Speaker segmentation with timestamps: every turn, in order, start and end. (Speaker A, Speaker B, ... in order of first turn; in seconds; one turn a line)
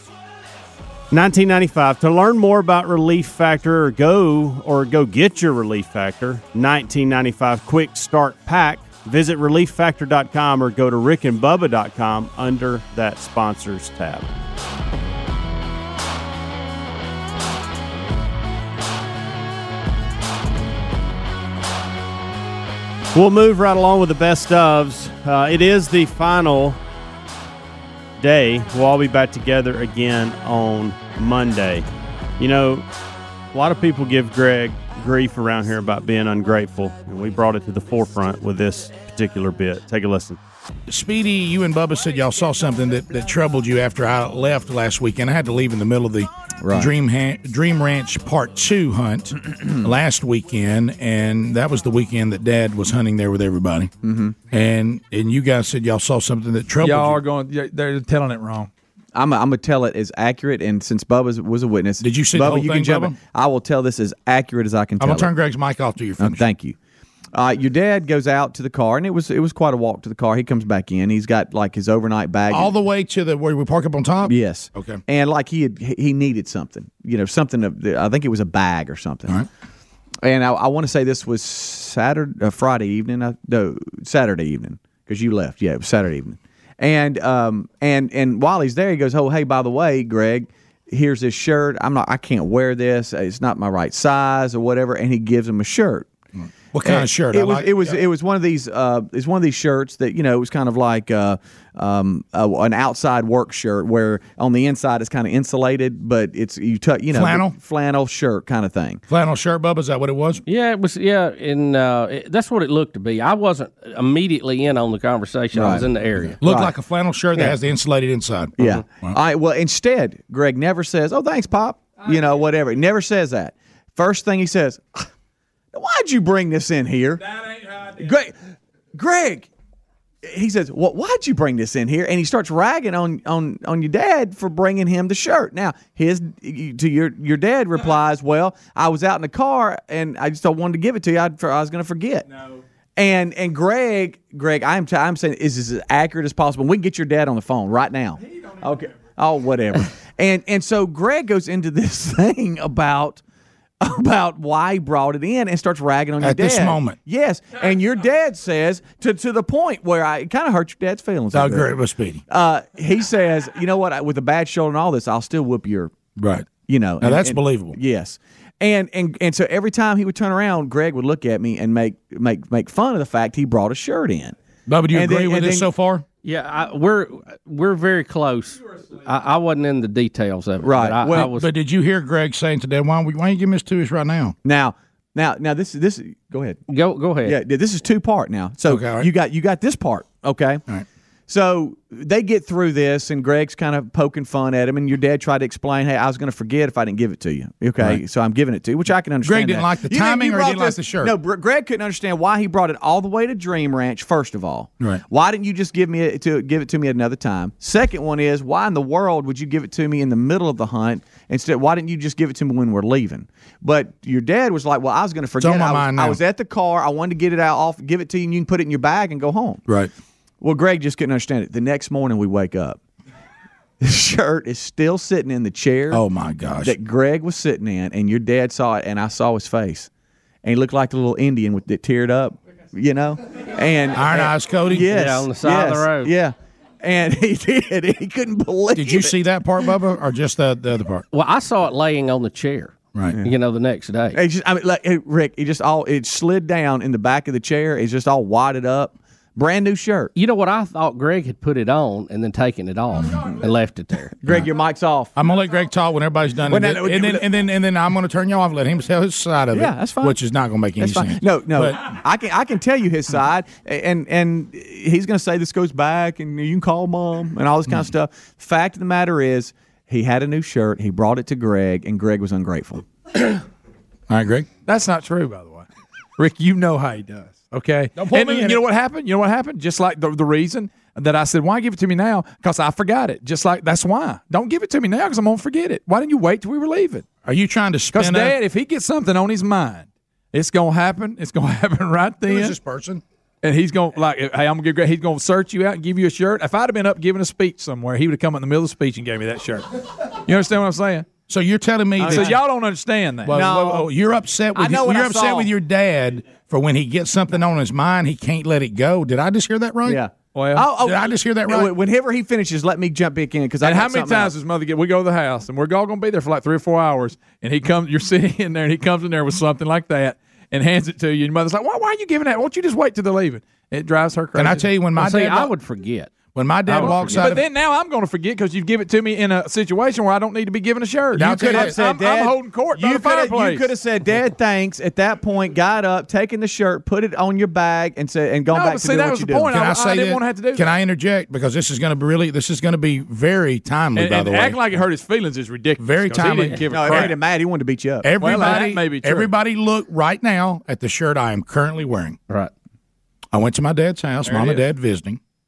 Speaker A: 1.1-14.3
Speaker A: 23.1-26.8
Speaker A: 28.2-31.9
Speaker A: 32.4-32.8
Speaker A: 33.5-40.4
Speaker B: 40.9-53.9
Speaker C: 46.6-46.9
Speaker C: 54.0-54.4
Speaker B: 54.5-57.2
Speaker D: 56.8-58.7
Speaker C: 59.1-65.3
Speaker B: 62.0-63.2
Speaker B: 65.0-66.4
Speaker C: 66.2-66.8
Speaker C: 67.3-72.7
Speaker B: 72.5-75.0
Speaker C: 74.2-79.4
Speaker C: 80.2-96.1
Speaker B: 96.4-97.9
Speaker C: 96.8-109.0
Speaker B: 107.1-107.5
Speaker B: 109.1-110.4
Speaker E: 110.5-116.4
Speaker C: 115.5-116.7
Speaker B: 116.4-119.2
Speaker C: 118.6-125.1
Speaker C: 125.7-127.2
Speaker D: 127.3-128.0
Speaker C: 128.0-128.3
Speaker C: 128.9-129.5
Speaker C: 130.2-142.3
Speaker C: 142.9-153.2
Speaker C: 153.8-161.8
Speaker B: 156.2-157.0
Speaker B: 161.3-162.2
Speaker C: 162.3-165.9
Speaker B: 166.2-167.8
Speaker C: 166.6-174.4
Speaker B: 174.7-176.0
Speaker C: 174.9-175.7
Speaker E: 176.2-181.5
Speaker C: 180.6-181.3
Speaker B: 181.1-184.3
Speaker C: 184.4-186.6
Speaker E: 186.7-187.4
Speaker C: 187.2-190.6
Speaker B: 188.7-189.1
Speaker C: 191.3-219.6
Speaker B: 199.2-201.1
Speaker B: 215.4-216.2
Speaker C: 220.4-222.8
Speaker C: 223.8-226.0
Speaker B: 225.9-226.7
Speaker C: 226.6-229.9
Speaker C: 230.4-239.2
Speaker B: 233.9-234.9
Speaker E: 234.8-236.1
Speaker B: 238.8-241.1
Speaker E: 241.1-244.2
Speaker C: 244.1-250.1
Speaker E: 250.1-254.2
Speaker C: 254.2-255.1
Speaker B: 255.2-261.8
Speaker C: 256.5-257.3
Speaker C: 259.5-260.2
Speaker C: 260.8-272.8
Speaker B: 274.1-274.5
Speaker D: 274.6-287.1
Speaker B: 277.9-278.6
Speaker B: 287.2-288.4
Speaker D: 287.9-292.6
Speaker B: 292.2-293.0
Speaker D: 293.4-299.6
Speaker D: 300.2-301.1
Speaker B: 301.2-302.4
Speaker D: 302.0-303.6
Speaker C: 302.0-302.4
Speaker B: 303.2-310.0
Speaker C: 303.3-303.9
Speaker C: 304.5-305.5
Speaker C: 309.8-314.3
Speaker D: 310.3-310.7
Speaker B: 310.8-311.7
Speaker D: 313.6-324.7
Speaker B: 324.3-325.5
Speaker E: 324.9-327.4
Speaker B: 326.2-327.4
Speaker D: 326.7-333.7
Speaker B: 331.1-331.8
Speaker C: 331.2-339.5
Speaker D: 338.5-340.8
Speaker B: 339.5-344.8
Speaker D: 343.9-347.2
Speaker B: 345.8-347.0
Speaker C: 346.7-348.1
Speaker B: 348.0-352.2
Speaker D: 348.2-349.3
Speaker B: 353.3-355.2
Speaker D: 354.2-354.7